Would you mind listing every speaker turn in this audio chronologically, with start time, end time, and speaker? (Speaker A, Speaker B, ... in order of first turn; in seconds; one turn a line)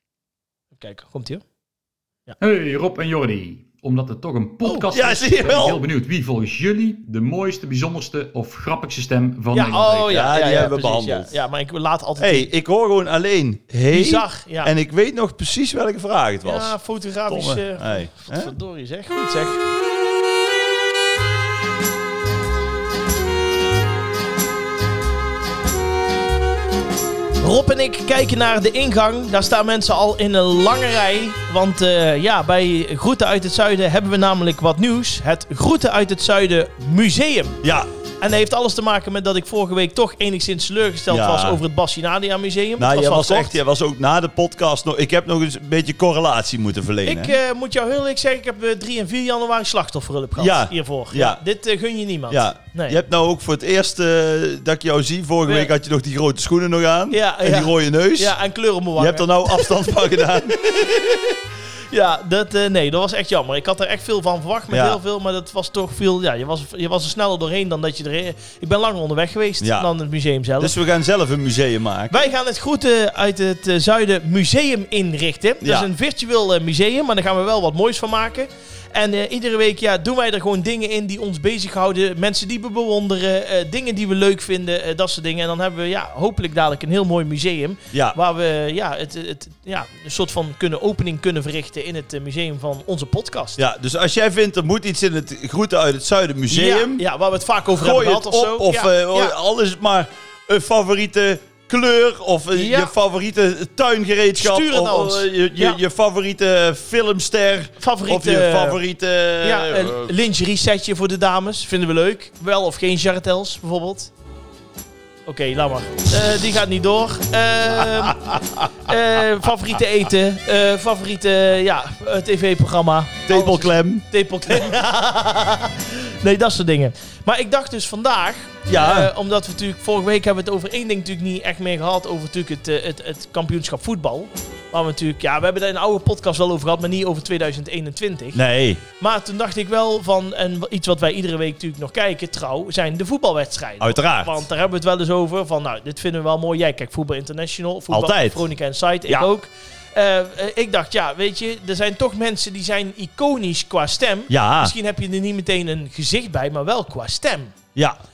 Speaker A: 0.8-1.4
Speaker B: 2.4-10.2
Speaker A: 4.6-4.9
Speaker C: 4.9-5.8
Speaker A: 9.5-12.5
Speaker C: 10.1-11.4
Speaker C: 12.2-16.8
Speaker A: 13.9-14.7
Speaker A: 16.4-19.6
Speaker C: 17.3-18.5
Speaker A: 27.4-37.6
Speaker C: 37.6-37.9
Speaker A: 38.2-43.6
Speaker C: 41.1-41.6
Speaker C: 42.8-47.4
Speaker A: 47.0-53.0
Speaker C: 50.4-51.4
Speaker C: 52.3-58.4
Speaker A: 55.5-55.7
Speaker A: 57.1-61.4
Speaker C: 59.0-60.6
Speaker A: 61.9-70.7
Speaker C: 64.7-65.0
Speaker C: 69.6-69.9
Speaker C: 70.6-72.3
Speaker A: 72.1-93.6
Speaker C: 75.6-75.9
Speaker C: 93.6-97.0
Speaker A: 96.5-99.3
Speaker C: 97.8-110.1
Speaker A: 102.5-102.9
Speaker A: 104.4-105.8
Speaker A: 107.8-108.8
Speaker A: 109.4-114.1
Speaker A: 115.3-118.2
Speaker C: 117.9-118.7
Speaker A: 118.8-138.4
Speaker C: 123.3-124.0
Speaker C: 128.7-129.1
Speaker C: 138.3-138.8
Speaker A: 139.0-157.6
Speaker C: 143.8-144.3
Speaker C: 147.9-148.4
Speaker C: 154.3-154.7